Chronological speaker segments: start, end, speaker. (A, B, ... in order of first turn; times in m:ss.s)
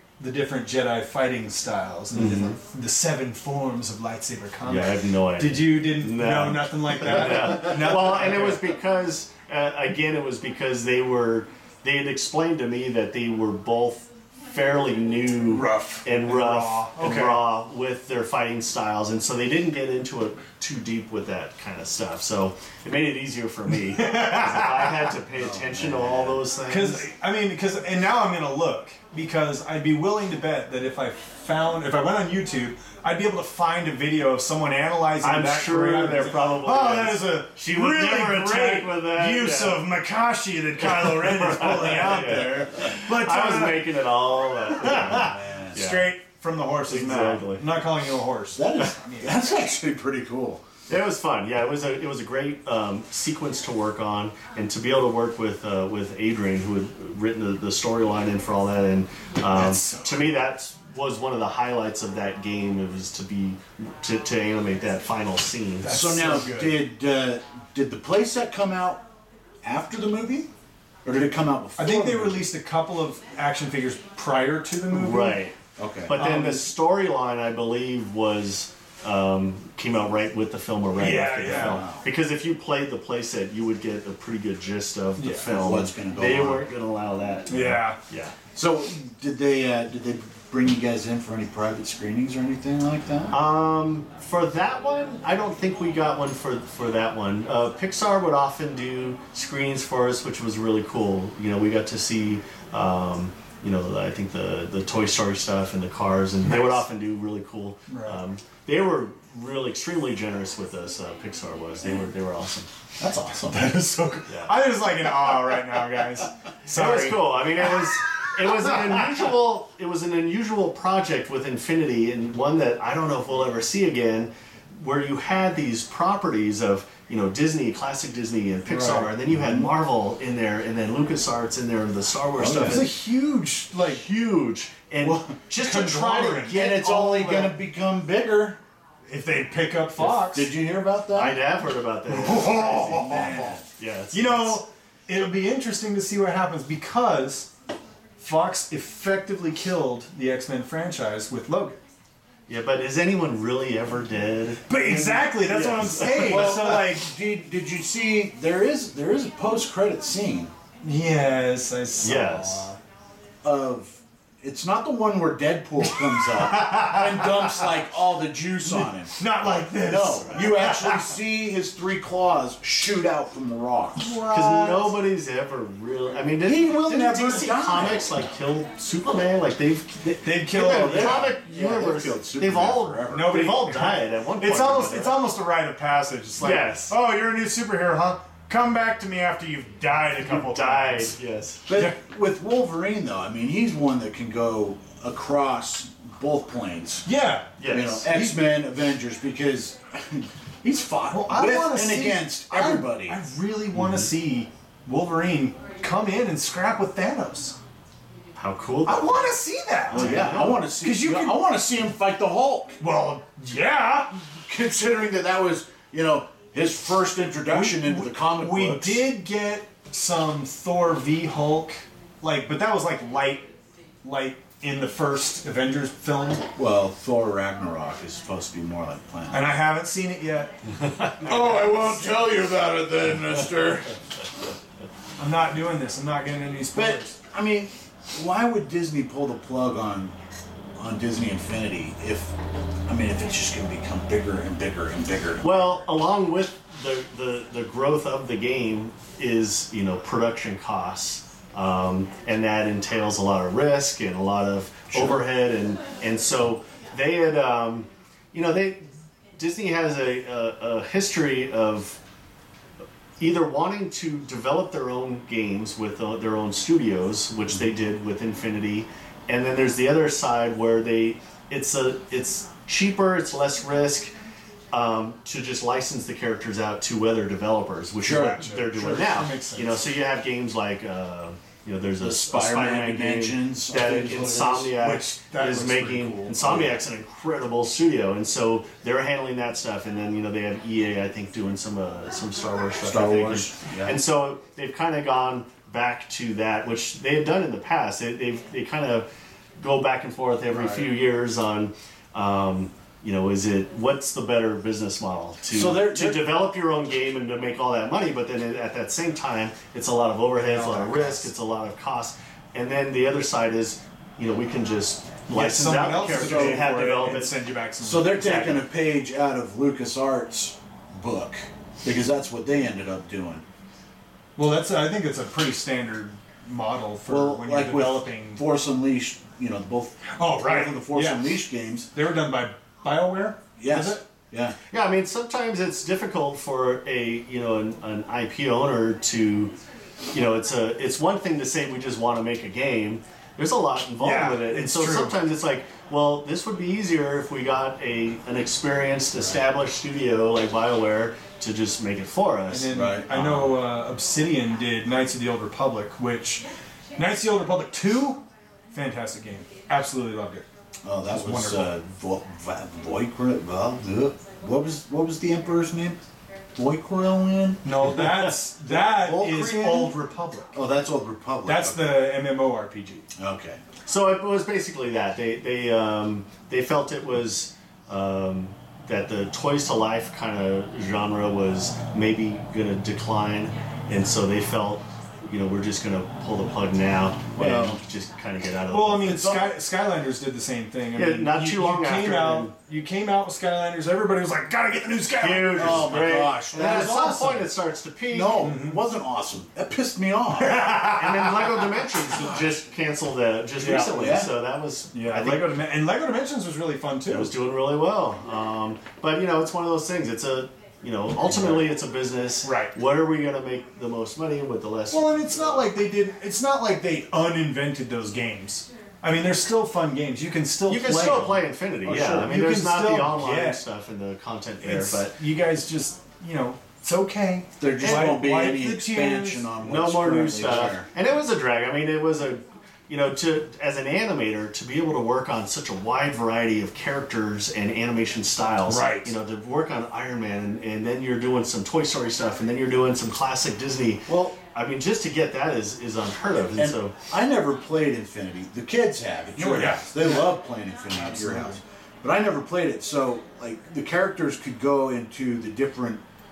0:00.2-0:08.6 A
0:02.1-0:02.6 B
0:04.6-0:27.0 B
0:15.5-0:17.4 A
0:24.0-0:25.1 A
0:25.4-0:26.4 C
0:26.7-0:43.9 A
0:35.2-0:39.8 B
0:40.8-0:46.1 B
0:44.8-0:49.6 A
0:44.9-0:45.8 C
0:46.9-0:47.6 B
0:48.5-0:50.6 C
0:50.9-1:06.0 B
0:59.5-1:00.4 A
1:05.8-1:06.8 A
1:05.8-1:09.0 C
1:09.6-1:10.5 C
1:11.0-1:12.5 C
1:11.8-1:15.4 A
1:14.9-1:15.6 B
1:15.8-1:16.3 C
1:16.1-1:28.4 B
1:16.2-1:16.6 A
1:21.0-1:21.8 A
1:21.5-1:22.0 C
1:25.2-1:25.5 A
1:25.4-1:26.7 C
1:27.5-1:28.0 A
1:28.5-1:33.4 C
1:33.3-1:52.7 B
1:46.4-1:46.8 A
1:47.9-1:48.2 A
1:53.0-1:53.7 C
1:53.0-1:57.6 A
1:54.3-1:54.5 B
1:56.7-2:12.9 B
2:08.7-2:09.7 C
2:12.4-2:12.8 C
2:12.6-2:14.0 A
2:13.9-2:17.5 B
2:15.6-2:17.3 A
2:16.5-2:18.6 C
2:19.1-2:20.5 A
2:20.0-2:21.4 C
2:21.1-2:24.6 B
2:22.1-2:23.6 A
2:22.8-2:23.6 C
2:24.1-2:27.5 A
2:28.2-2:31.8 A
2:32.5-2:36.6 B
2:34.7-2:37.1 A
2:36.2-2:40.5 C
2:40.8-2:42.8 A
2:42.0-2:42.7 B
2:43.4-2:49.2 C
2:45.9-2:47.8 A
2:48.6-2:51.1 A
2:49.8-2:54.2 C
2:54.0-2:54.9 A
2:54.3-3:05.2 B
2:56.4-2:58.2 C
3:00.2-3:01.4 A
3:00.6-3:03.4 C
3:03.1-3:11.2 A
3:06.4-3:06.9 B
3:10.2-3:11.6 B
3:11.7-3:17.1 C
3:11.7-3:11.9 A
3:17.0-3:18.4 A
3:17.6-3:18.1 B
3:17.7-3:23.2 C
3:21.1-3:27.6 A
3:23.8-3:24.0 B
3:28.4-3:29.2 B
3:28.8-3:31.4 A
3:29.9-3:30.6 B
3:29.9-3:32.8 C
3:32.8-3:34.2 A
3:34.4-3:39.0 C
3:37.5-3:43.5 A
3:44.0-3:46.5 A
3:46.6-3:49.5 C
3:49.3-3:52.3 A
3:51.2-3:53.9 C
3:55.2-3:57.2 A
3:56.7-4:00.1 C
4:00.8-4:02.3 C
4:02.9-4:05.5 C
4:05.4-4:18.8 B
4:19.4-4:22.0 B
4:23.2-4:34.1 B
4:34.7-4:59.1 B
4:38.0-4:39.2 C
4:38.1-4:39.8 A
4:42.0-4:44.8 C
4:44.8-4:46.7 A
4:52.8-4:54.0 C
4:59.6-5:17.3 B
5:00.5-5:00.9 C
5:05.5-5:06.3 C
5:10.4-5:11.3 A
5:15.3-5:18.6 A
5:16.1-5:16.7 C
5:17.8-5:23.4 C
5:24.4-5:28.4 A
5:27.1-5:31.9 C
5:30.1-5:31.4 A
5:31.9-5:34.0 A
5:33.6-5:34.6 C
5:34.7-5:39.5 B
5:40.1-5:52.7 B
5:44.0-5:45.2 A
5:52.5-6:00.4 A
5:52.7-5:53.5 C
6:00.8-6:06.0 C
6:01.1-6:01.7 A
6:06.6-6:07.6 C
6:07.6-6:10.5 A
6:08.6-6:10.0 C
6:10.5-6:12.0 C
6:11.4-6:13.0 A
6:13.2-6:13.6 C
6:13.8-6:29.5 B
6:27.4-6:27.8 C
6:28.7-6:36.9 A
6:30.9-6:32.5 B
6:35.2-6:38.5 B
6:35.5-6:37.5 C
6:38.1-6:40.9 C
6:38.4-6:38.8 A
6:40.4-6:41.6 A
6:40.8-6:45.5 B
6:42.1-6:42.4 C
6:43.6-6:44.2 A
6:43.9-6:44.3 C
6:44.9-6:47.3 A
6:47.1-6:55.6 B
6:51.3-6:51.6 A
6:52.4-6:52.7 A
6:54.9-7:03.6 A
7:00.6-7:05.2 B
7:00.9-7:01.2 C
7:01.8-7:02.2 C
7:04.6-7:09.5 A
7:07.6-7:10.9 C
7:09.6-7:26.9 B
7:18.6-7:19.1 A
7:26.5-7:36.0 C
7:29.4-7:30.3 A
7:30.9-7:31.6 A